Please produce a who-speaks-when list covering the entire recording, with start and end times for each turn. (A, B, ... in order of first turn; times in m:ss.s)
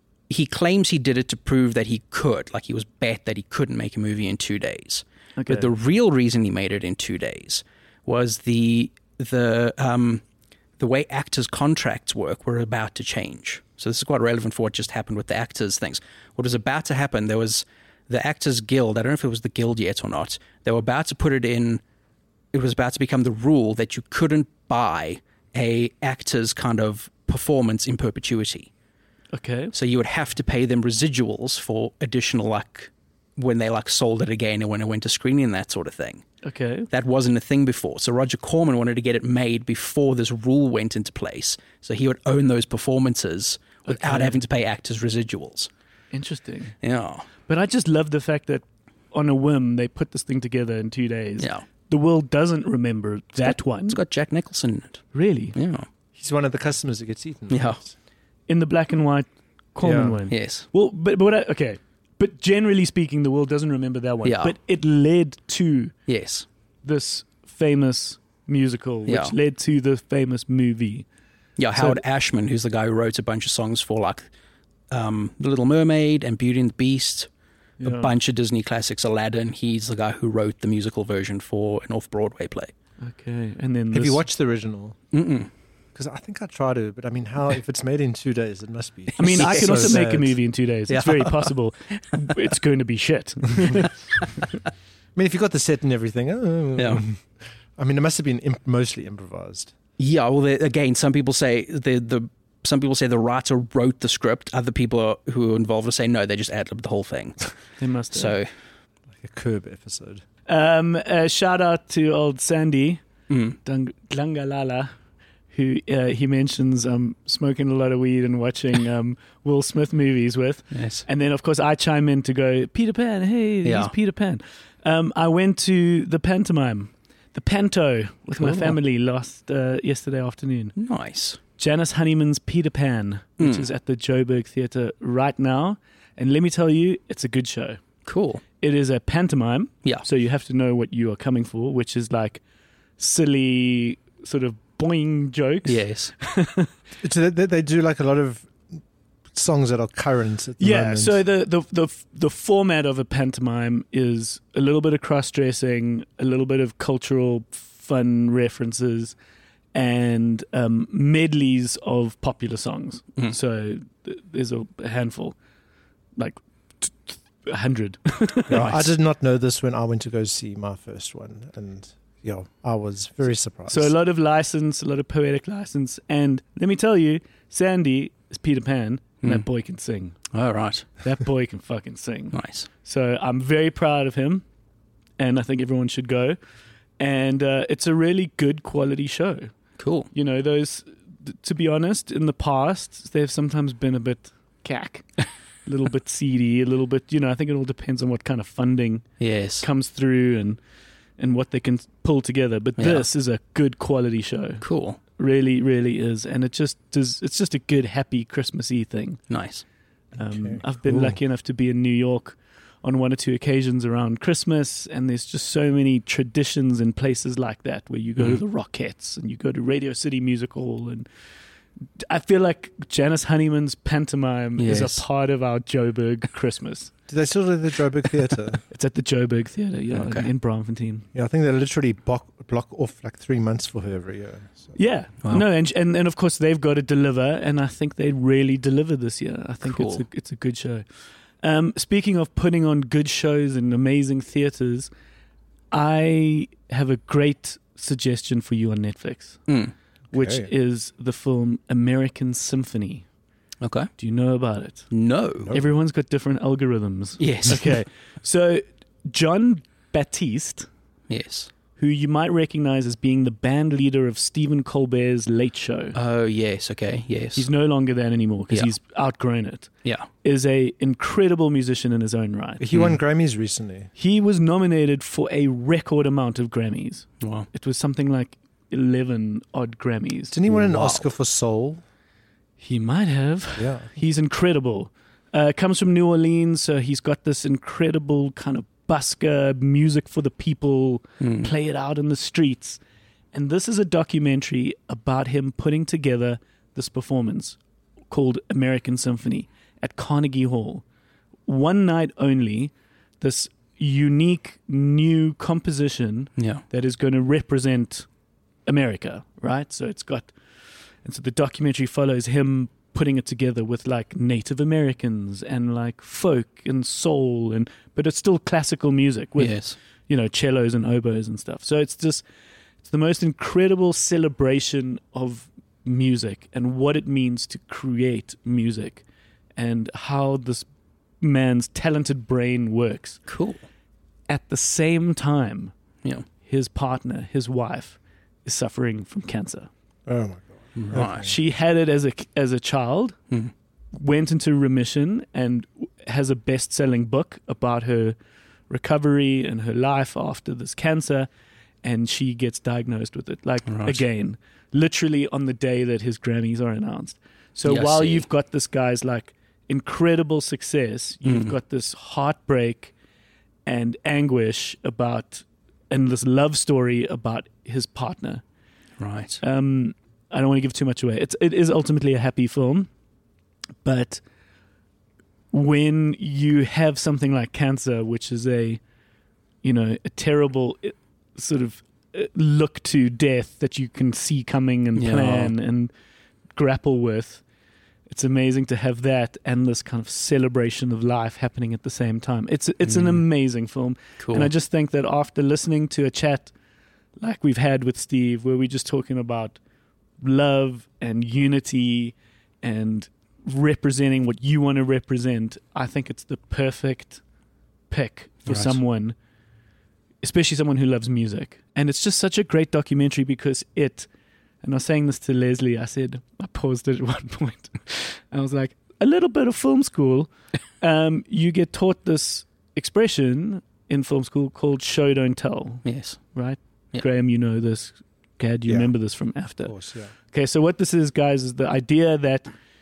0:00.3-0:10.2 A
0:05.4-0:05.7 B
0:10.8-0:21.8 A
0:22.5-0:28.7 A
0:29.3-0:29.7 B
0:29.7-0:36.2 A
0:36.4-0:36.9 B
0:36.9-0:45.7 A
0:43.9-0:44.4 B
0:46.1-0:46.8 B
0:46.8-0:47.3 A
0:47.5-0:54.0 B
0:51.4-0:51.6 A
0:53.4-0:55.0 A
0:55.1-0:55.6 B
0:55.6-0:55.9 A
0:56.2-0:57.9 C
0:57.5-0:57.8 A
0:58.5-1:05.9 B
0:59.8-1:00.2 C
1:00.3-1:00.7 A
1:04.2-1:04.5 A
1:06.1-1:06.5 A
1:06.8-1:11.1 B
1:09.1-1:09.4 A
1:11.6-1:14.3 A
1:11.8-1:12.0 B
1:14.9-1:17.3 A
1:17.8-1:18.1 B
1:17.8-1:22.7 A
1:23.0-1:24.2 B
1:23.9-1:25.0 C
1:25.1-1:25.5 A
1:26.0-1:30.4 C
1:29.2-1:30.1 A
1:29.2-1:34.5 B
1:30.9-1:31.5 A
1:35.2-1:39.7 C
1:36.8-1:37.0 A
1:40.0-1:47.6 A
1:47.8-1:48.4 B
1:48.1-1:48.5 A
1:49.2-1:50.2 C
1:50.5-1:53.0 B
1:53.3-1:53.6 A
1:53.6-1:54.9 B
1:55.5-2:10.7 B
2:00.7-2:01.0 A
2:03.6-2:03.9 A
2:08.4-2:08.8 A
2:10.8-2:11.4 A
2:11.6-2:17.8 B
2:13.4-2:13.7 A
2:18.1-2:18.4 A
2:18.6-2:22.4 B
2:23.0-2:26.7 B
2:25.6-2:26.1 A
2:27.0-2:28.6 C
2:29.3-2:31.2 C
2:30.6-2:39.2 B
2:39.7-2:45.4 B
2:46.2-2:48.8 B
2:48.5-2:53.9 C
2:48.5-2:48.8 A
2:53.7-3:00.2 B
3:00.3-3:00.9 A
3:01.0-3:04.4 B
3:02.3-3:02.7 A
3:05.2-3:06.4 B
3:07.0-3:09.5 B
3:09.8-3:10.1 A
3:10.1-3:19.1 B
3:19.2-3:19.7 A
3:19.6-3:20.6 B
3:21.2-3:24.6 B
3:22.8-3:23.0 A
3:24.6-3:25.0 A
3:25.2-3:29.2 B
3:29.3-3:29.6 A
3:30.2-3:41.1 B
3:30.3-3:31.2 C
3:42.0-3:46.9 B
3:44.6-3:45.0 A
3:47.1-3:48.6 C
3:48.7-3:51.1 B
3:50.0-3:50.3 A
3:51.1-3:54.7 C
3:54.8-4:00.8 B
3:59.6-4:00.0 A
4:01.4-4:04.9 B
4:05.7-4:09.4 B
4:09.5-4:09.7 A
4:10.1-4:10.5 C
4:10.1-4:13.0 B
4:13.6-4:13.9 A
4:14.0-4:14.9 B
4:14.9-4:15.6 A
4:15.5-4:20.7 B
4:17.2-4:17.8 A
4:21.1-4:21.5 A
4:21.8-4:26.0 B
4:26.0-4:27.5 A
4:27.4-4:29.7 B
4:30.2-4:32.6 B
4:32.6-4:33.9 C
4:34.0-4:40.4 B
4:37.2-4:37.5 A
4:40.3-4:41.8 C
4:40.5-4:41.1 A
4:42.6-4:52.8 B
4:43.6-4:43.9 C
4:51.2-4:51.5 A
4:53.3-4:57.6 B
4:58.1-5:00.8 B
5:01.5-5:08.1 B
5:06.4-5:06.6 A
5:08.7-5:10.3 B
5:11.0-5:22.2 B
5:19.4-5:19.8 A
5:22.8-5:29.0 B
5:29.6-5:30.7 B
5:31.2-5:33.2 B
5:33.3-5:33.6 A
5:34.3-5:35.7 B
5:36.4-5:39.7 B
5:40.1-5:41.3 C
5:40.8-5:41.3 A
5:41.0-5:43.2 B
5:43.9-5:48.2 B
5:48.7-5:51.3 B
5:51.8-6:02.9 B
5:53.7-5:54.0 A
5:57.7-5:58.3 A
6:01.2-6:01.5 A
6:03.7-6:08.4 B
6:09.0-6:09.4 A
6:09.4-6:12.9 B
6:13.8-6:14.2 B
6:15.5-6:18.8 B
6:19.6-6:25.9 B
6:25.0-6:25.5 A
6:26.6-6:27.4 B
6:28.1-6:36.5 B
6:32.9-6:33.2 A
6:34.2-6:34.5 A
6:37.2-6:39.6 B
6:40.2-6:47.2 B
6:47.9-6:49.2 B
6:48.5-6:48.8 A
6:50.2-6:54.1 B
6:54.6-7:09.7 B
7:05.8-7:06.2 A
7:09.6-7:10.1 C
7:10.3-7:12.5 B